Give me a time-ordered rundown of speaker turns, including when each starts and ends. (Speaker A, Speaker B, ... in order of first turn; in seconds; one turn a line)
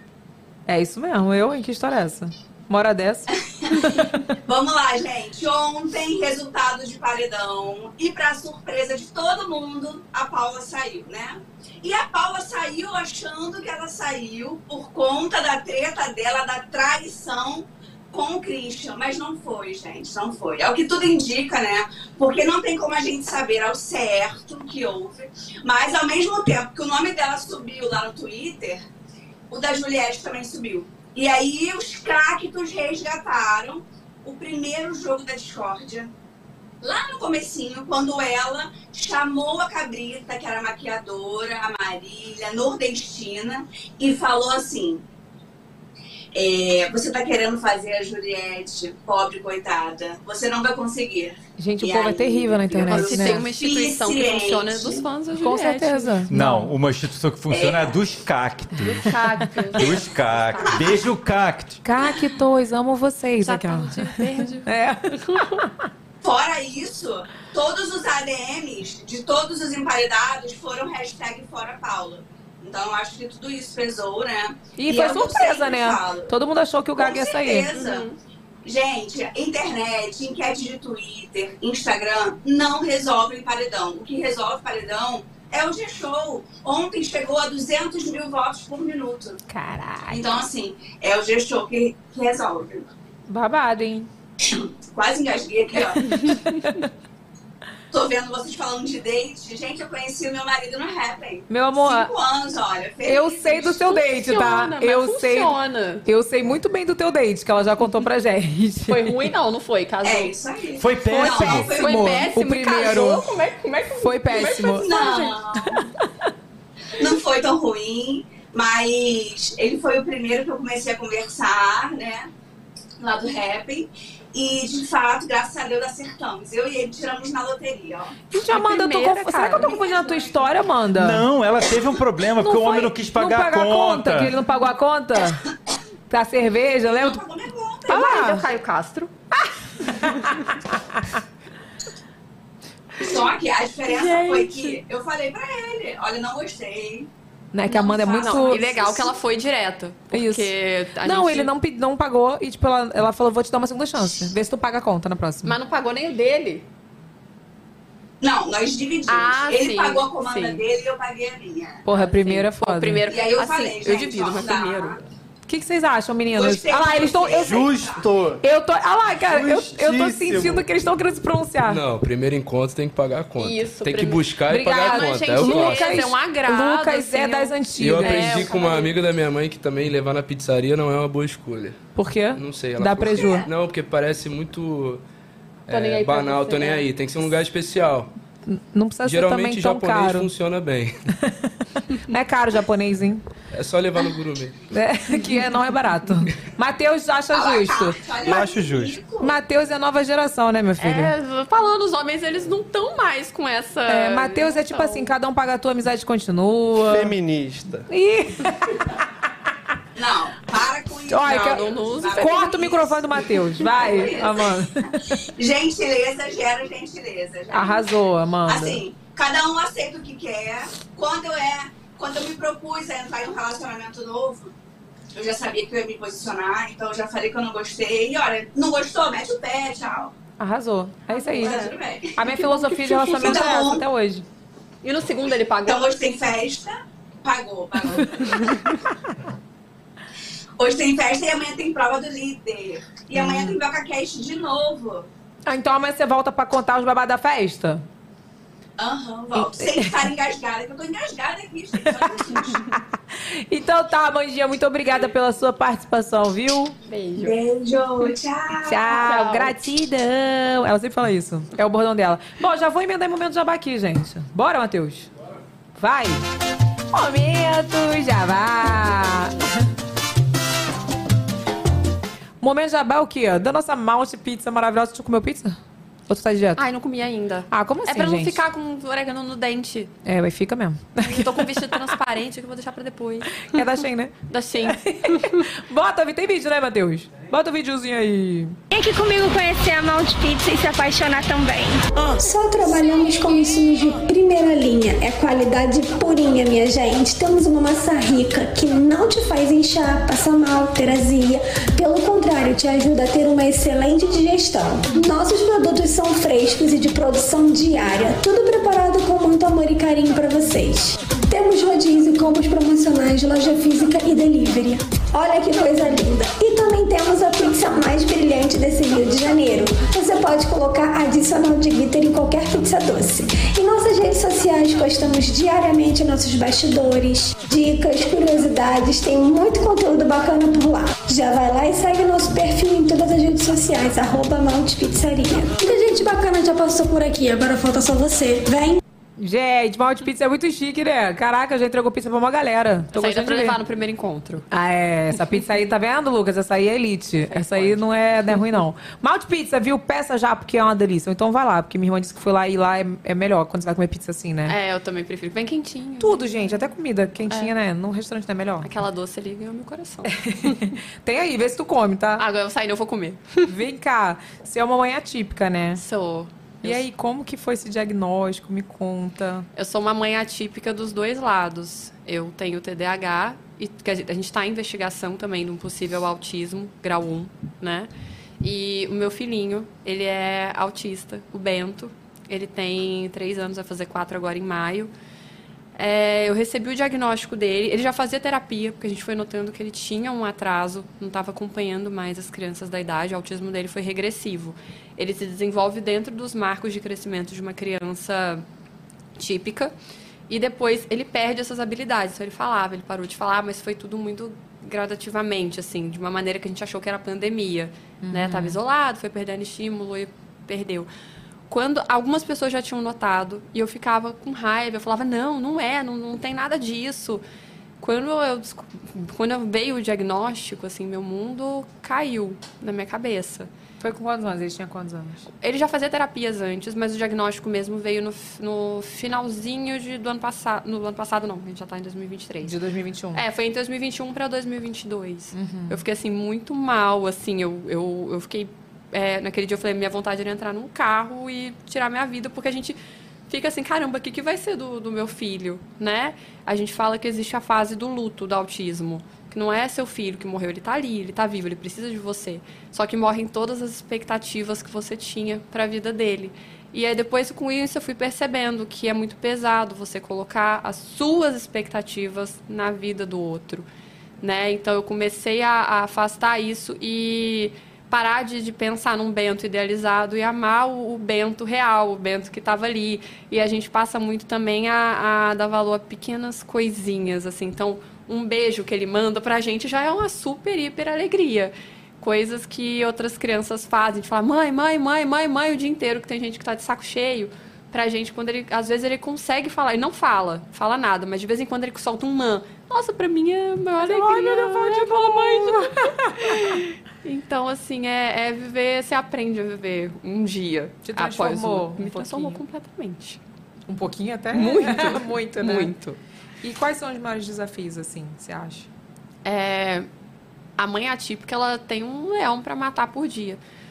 Speaker A: 0.7-4.2
Speaker B: 3.6-3.9
Speaker B: 4.5-28.8
Speaker B: 29.5-36.1
Speaker B: 36.8-45.0
Speaker B: 46.4-55.0
Speaker A: 51.6-53.4
Speaker C: 52.9-56.3
Speaker A: 55.4-56.7
Speaker D: 56.3-59.1
Speaker B: 57.5-58.0
Speaker C: 58.8-60.8
Speaker D: 59.8-61.8
Speaker A: 61.8-65.7
Speaker C: 63.4-64.7
Speaker C: 65.3-65.6
Speaker B: 66.2-76.3
Speaker A: 74.8-77.7
Speaker B: 77.0-78.1
Speaker C: 77.7-78.2
Speaker B: 78.7-89.4
Speaker A: 89.5-90.4
Speaker B: 90.1-92.9
Speaker A: 93.3-94.1
Speaker B: 94.5-96.2
Speaker B: 97.9-103.9
Speaker A: 101.5-102.1
Speaker A: 103.0-105.5
Speaker C: 103.8-106.0
Speaker A: 106.0-109.2
Speaker C: 108.9-110.4
Speaker B: 110.0-112.3
Speaker D: 110.8-111.7
Speaker A: 111.1-113.3
Speaker C: 111.8-115.4
Speaker A: 114.0-114.9
Speaker B: 114.8-115.8
Speaker B: 117.0-122.3
Speaker B: 123.0-128.2
Speaker A: 128.3-131.2
Speaker C: 128.4-129.8
Speaker B: 129.6-130.5
Speaker D: 130.9-134.4
Speaker A: 132.4-135.4
Speaker A: 136.1-137.2
Speaker B: 136.8-138.4
Speaker C: 137.9-139.1
Speaker A: 137.9-138.4
Speaker A: 139.4-141.0
Speaker B: 143.0-147.1
Speaker C: 143.9-144.8
Speaker A: 147.5-149.1
Speaker C: 147.7-151.5
Speaker A: 150.1-150.5
Speaker A: 151.0-155.5
Speaker C: 155.4-156.7
Speaker B: 158.2-161.8
Speaker C: 159.1-160.6
Speaker A: 161.9-163.1
Speaker C: 161.9-165.0
Speaker B: 163.1-165.0
Speaker A: 165.5-167.7
Speaker B: 166.3-168.1
Speaker E: 167.3-168.4
Speaker A: 168.4-171.8
Speaker E: 169.2-170.7
Speaker F: 171.7-176.1
Speaker C: 173.4-179.0
Speaker A: 174.5-178.5
Speaker F: 177.8-181.8
Speaker A: 181.9-183.5
Speaker F: 182.3-185.0
Speaker F: 185.7-188.1
Speaker C: 185.7-186.9
Speaker A: 188.5-190.3
Speaker F: 189.0-191.0
Speaker A: 191.2-193.2
Speaker F: 193.5-194.6
Speaker A: 194.7-198.0
Speaker B: 197.3-199.4
Speaker E: 198.2-199.0
Speaker A: 199.2-201.1
Speaker C: 200.8-205.1
Speaker A: 203.9-207.2
Speaker E: 206.9-207.9
Speaker A: 207.9-209.0
Speaker B: 210.0-212.9
Speaker A: 211.1-215.2
Speaker C: 211.2-212.8
Speaker B: 213.6-214.5
Speaker B: 215.4-217.9
Speaker A: 217.5-218.8
Speaker B: 218.5-224.5
Speaker B: 225.2-230.1
Speaker A: 230.4-234.2
Speaker C: 231.2-233.6
Speaker B: 231.4-232.1
Speaker B: 233.1-233.8
Speaker C: 234.8-235.9
Speaker B: 235.6-238.6
Speaker B: 240.6-245.1
Speaker A: 243.1-243.6
Speaker A: 245.5-247.8
Speaker B: 248.8-252.7
Speaker A: 249.3-250.1
Speaker A: 252.7-256.8
Speaker C: 256.9-257.4
Speaker B: 257.2-259.1
Speaker A: 258.7-265.1
Speaker C: 258.9-259.5
Speaker A: 265.8-266.3
Speaker A: 266.9-269.5
Speaker A: 272.4-275.6
Speaker A: 276.1-276.6
Speaker C: 276.6-279.9
Speaker A: 277.5-278.4
Speaker A: 280.1-281.8
Speaker C: 281.0-283.6
Speaker A: 283.4-284.1
Speaker C: 284.3-285.5
Speaker A: 284.7-288.6
Speaker G: 288.7-291.9
Speaker H: 292.1-338.8
Speaker A: 339.2-343.6
Speaker C: 342.9-344.5
Speaker A: 344.5-354.6
Speaker C: 347.3-348.2
Speaker C: 354.5-356.3
Speaker A: 356.0-358.7
Speaker C: 358.6-360.6
Speaker A: 360.1-362.2
Speaker C: 362.2-363.5
Speaker A: 363.5-365.8
Speaker C: 365.8-366.8
Speaker A: 366.6-369.5
Speaker C: 369.6-377.9
Speaker C: 378.4-384.9
Speaker C: 385.8-398.4
Speaker C: 399.2-399.7
Speaker C: 400.3-410.9
Speaker A: 408.0-408.6
Speaker C: 411.5-417.2
Speaker C: 417.8-423.5
Speaker A: 423.8-425.3
Speaker C: 425.4-432.6
Speaker A: 432.4-433.2
Speaker C: 433.1-442.8
Speaker A: 435.3-435.8
Speaker C: 443.3-463.7
Speaker C: 464.2-503.2
Speaker A: 493.8-496.6
Speaker A: 500.8-502.4
Speaker A: 503.7-505.7
Speaker C: 504.3-506.0
Speaker A: 506.4-508.7
Speaker C: 509.2-509.9
Speaker C: 510.6-513.4